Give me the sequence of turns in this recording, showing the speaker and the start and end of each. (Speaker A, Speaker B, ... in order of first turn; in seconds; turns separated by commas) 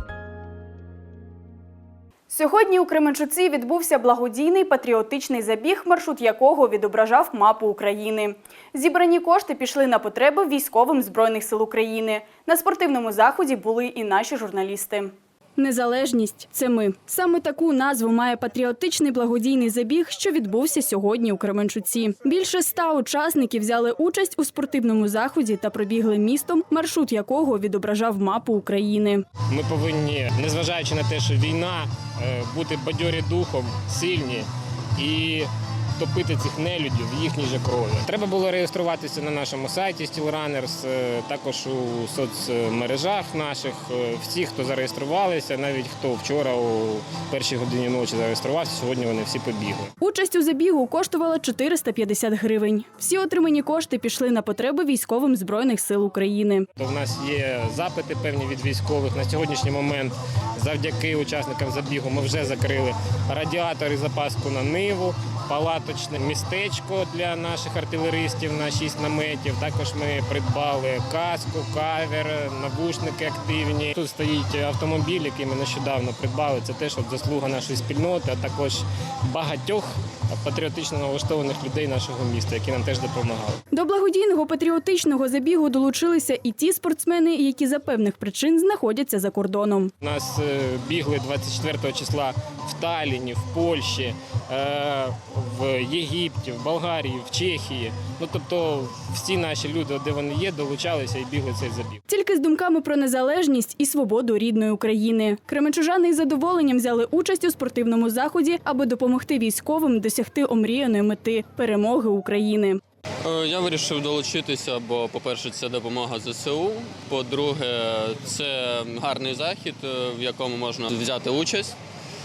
Speaker A: 2.3-29.2, Speaker B: 29.5-49.9, Speaker A: 50.0-56.7, Speaker B: 56.8-83.6, Speaker A: 83.7-89.9, Speaker B: 90.0-102.0, Speaker A: 102.1-112.8, Speaker C: 113.2-121.7